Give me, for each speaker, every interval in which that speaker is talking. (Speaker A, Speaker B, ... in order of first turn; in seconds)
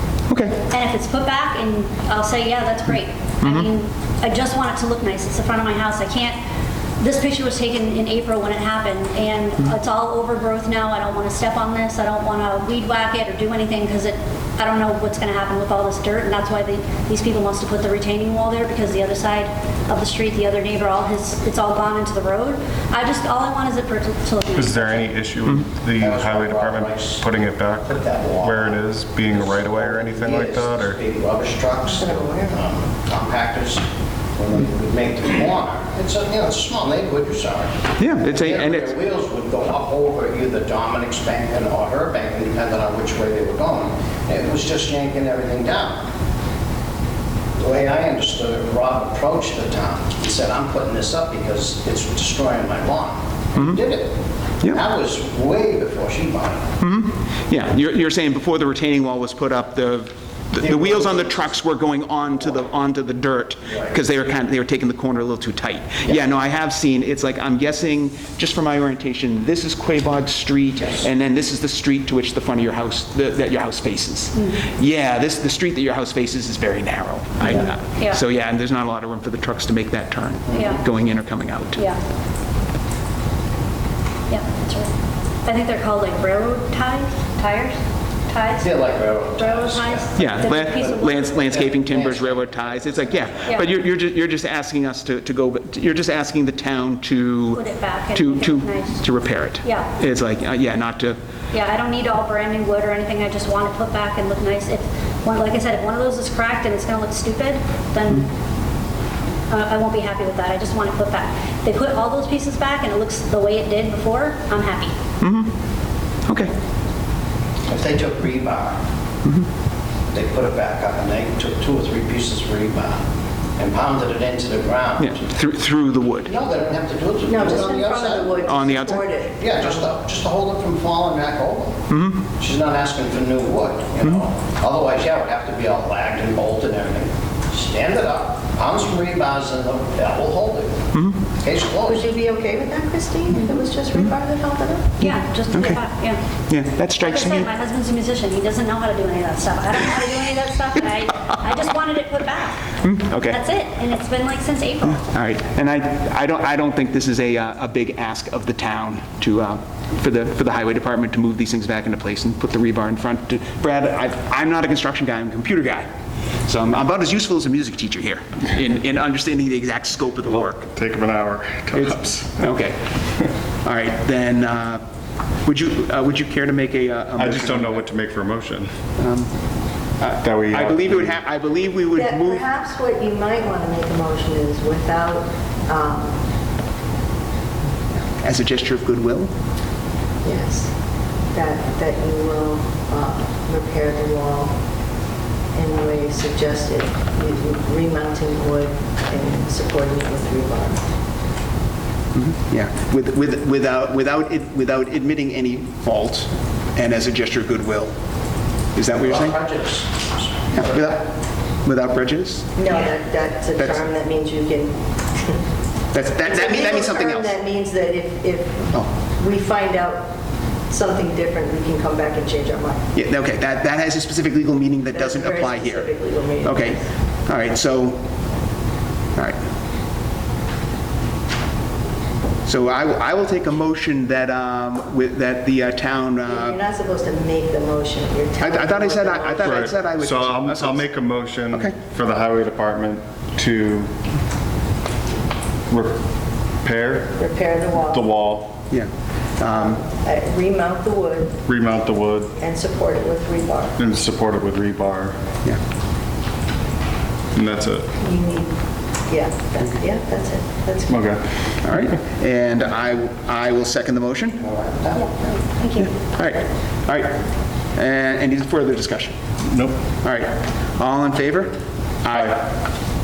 Speaker A: 0.3-0.6, 3.4-3.7, 38.0-38.9, 56.8-81.9, 90.2-97.6, 98.1-101.2, 115.2-115.5, 116.2-116.5, 125.0-126.3, 128.4-129.1, 131.9-132.2, 140.9-141.2, 145.0-145.8, 146.5-147.5, 152.8-153.4, 154.9-165.9, 166.4-170.7, 171.7-172.9, 173.6-174.8, 175.4-177.8, 179.0-179.3, 180.0-182.4, 187.9-189.3, 202.1-207.9, 208.7-209.4, 210.5-211.1, 211.6-212.9, 213.6-213.8, 215.9-217.3, 222.9-228.0, 232.4-236.6, 238.4-240.9, 241.5-241.8, 248.7-249.8, 261.6-264.5, 265.8-267.2, 267.7-269.2, 270.0-272.6
Speaker B: 0.6-6.4, 7.0-25.1, 74.3-74.6, 77.6-78.2, 80.5-80.8, 84.3-84.9, 85.4-88.8, 89.4-91.5, 97.5-99.0, 99.6-99.9, 101.5-108.3, 109.5-114.9, 145.0-146.2, 147.0-155.1, 264.9-265.9
Speaker C: 24.5-31.0, 170.3-172.5, 177.2-178.7, 180.2-181.2, 239.4-243.9, 245.7-246.0, 246.6-247.2, 247.8-248.6, 251.4-252.3, 253.8-255.2, 257.3-257.9, 260.9-261.2, 269.5-269.8
Speaker D: 26.0-27.3, 27.8-46.1, 47.5-56.7, 60.6-61.3, 88.6-93.5, 117.7-118.8, 120.1-123.0, 123.6-125.2, 126.3-128.5, 129.4-140.8, 141.4-142.0, 208.9-210.5
Speaker E: 31.8-32.7, 127.2-130.0, 141.8-144.9, 181.9-186.2, 190.2-190.7, 191.3-194.5, 195.5-200.8, 212.6-215.4, 216.2-220.1, 220.7-222.8, 224.9-226.9, 236.2-239.7, 247.2-248.1, 249.5-251.4, 252.3-253.8, 258.0-258.6, 259.1-261.0